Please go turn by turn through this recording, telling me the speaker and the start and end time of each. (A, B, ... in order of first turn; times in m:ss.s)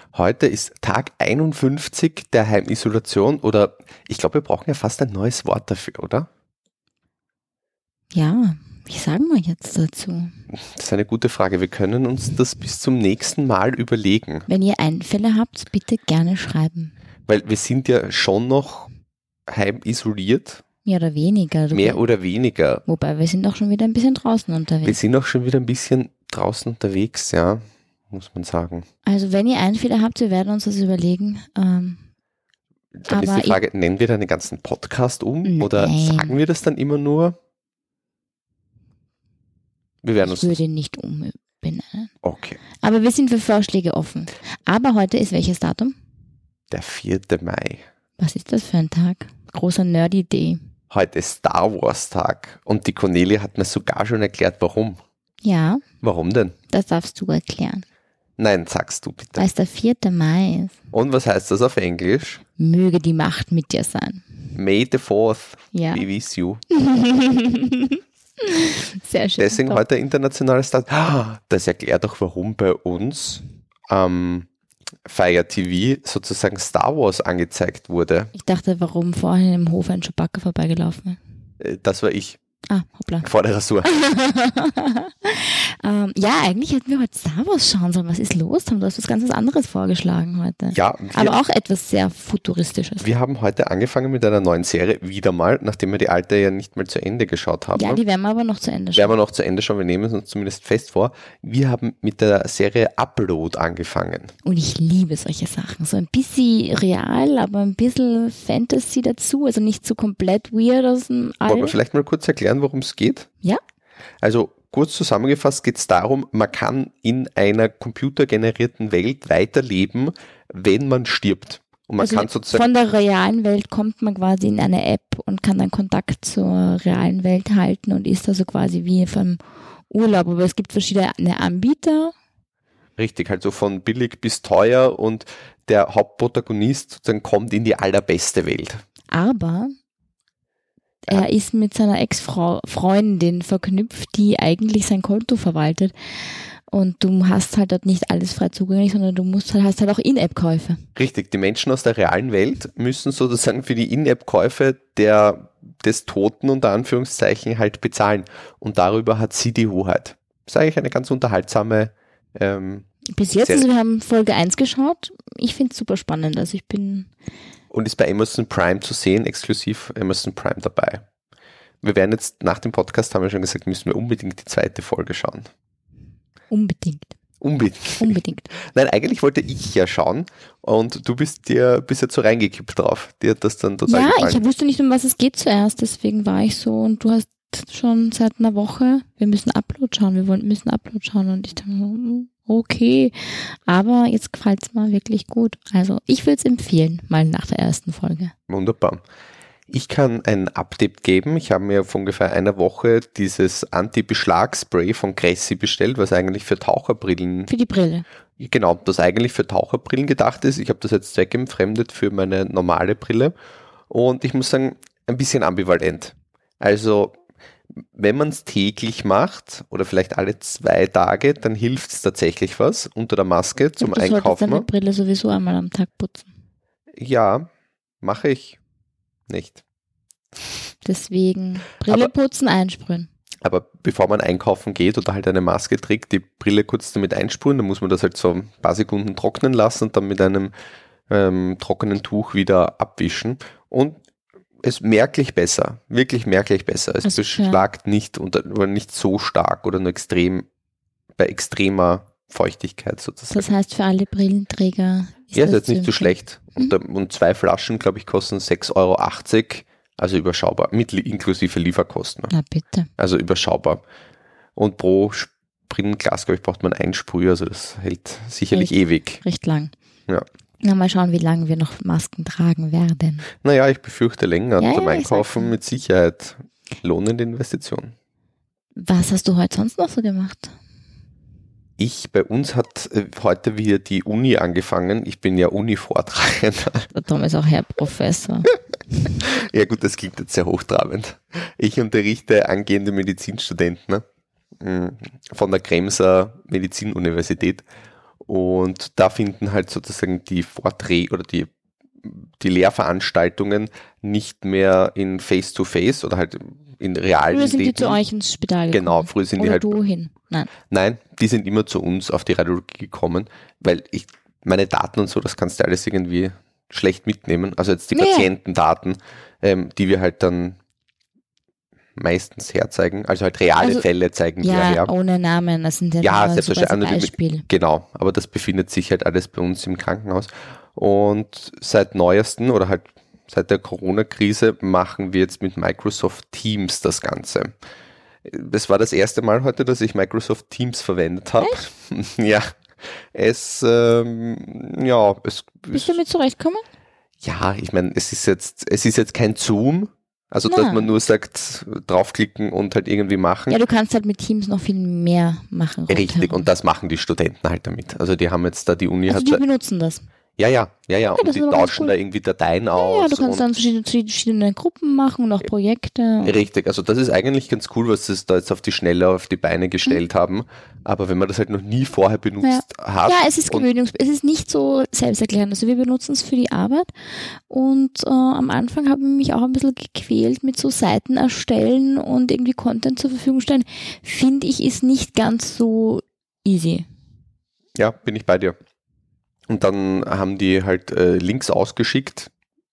0:00.1-0:06.3 A
0:08.1-0:10.3 B
0:10.5-0:14.5 A
0:14.5-0:16.9 B
0:17.3-0:18.9 A
0:19.5-0:20.6 A
0:20.9-0:22.0 B
0:21.7-0:22.8 A
0:22.9-0:25.0 B
0:24.8-0:28.9 A
0:29.1-0:32.0 B
0:33.0-0:37.4 A
0:33.1-0:33.6 B
0:35.4-0:36.4 B
0:40.0-0:40.6 A
0:40.2-0:42.1 B
0:42.2-0:42.6 A
0:42.8-0:46.0 B
0:46.7-0:47.8 A
0:48.2-0:50.6 B
0:50.9-0:55.0 A
0:55.4-0:55.8 B
0:56.0-0:56.5 A
0:56.7-0:57.8 B
0:58.4-0:59.4 A
0:59.4-1:00.8 B
1:00.9-1:02.4 A
1:02.6-1:04.3 B
1:04.6-1:06.6 A
1:05.7-1:06.0 B
1:06.7-1:09.8 B
1:09.4-1:14.5 A
1:15.0-1:18.3 A
1:18.4-1:21.2 B
1:21.6-1:22.4 A
1:22.7-1:23.3 B
1:23.2-1:23.9 A
1:23.8-1:33.1 B
1:30.7-1:31.4 A
1:33.0-1:38.0 A
1:37.8-1:39.1 B
1:39.0-1:44.3 A
1:44.4-1:51.8 B
1:51.5-1:53.3 A
1:54.2-2:02.7 A
2:02.0-2:12.1 B
2:13.0-2:18.8 A
2:19.1-2:19.7 B
2:21.1-2:30.8 B
2:31.0-2:42.9 A
2:43.1-2:47.1 B
2:47.7-2:51.0 A
2:51.8-2:55.5 A
2:56.5-2:57.1 B
2:57.4-3:04.4 A
2:58.0-2:58.5 B
3:03.9-3:18.3 B
3:18.5-3:19.0 A
3:19.7-3:27.5 A
3:27.5-3:28.0 B
3:28.4-3:33.3 A
3:33.9-3:37.2 A
3:37.9-3:44.7 A
3:43.8-3:46.3 B
3:47.0-3:47.5 A
3:48.0-3:48.6 A
3:49.3-3:49.6 A
3:50.8-3:53.1 B
3:53.4-4:00.5 A
4:01.1-4:04.0 A
4:04.6-4:10.4 A
4:07.0-4:07.7 B
4:11.2-4:13.4 A
4:13.3-4:16.8 B
4:15.3-4:22.3 A
4:22.3-4:22.9 B
4:23.0-4:23.8 A
4:24.6-4:29.2 A
4:28.5-4:29.7 B
4:30.6-4:33.3 B
4:33.4-4:37.9 A
4:34.6-4:35.5 B
4:38.8-4:40.6 B
4:41.8-4:46.9 A
4:46.9-4:48.5 B
4:49.1-4:54.0 A
4:54.6-4:57.6 A
4:58.3-5:01.5 A
5:02.0-5:08.0 A
5:07.3-5:10.5 B
5:08.7-5:09.8 A
5:10.7-5:20.6 A
5:18.0-5:18.3 B
5:22.0-5:24.9 A
5:23.6-5:23.9 B
5:24.4-5:27.5 B
5:26.0-5:37.5 A
5:38.2-5:42.5 A
5:43.1-5:46.0 A
5:45.7-5:46.6 B
5:47.2-5:53.6 A
5:50.5-5:50.9 B
5:53.5-5:56.5 B
5:55.9-5:59.4 A
5:59.1-6:00.0 B
6:00.4-6:03.4 A
6:01.2-6:02.0 B
6:02.8-6:06.4 B
6:06.2-6:13.7 A
6:12.4-6:26.9 B
6:27.8-6:28.6 A
6:29.5-6:32.3 A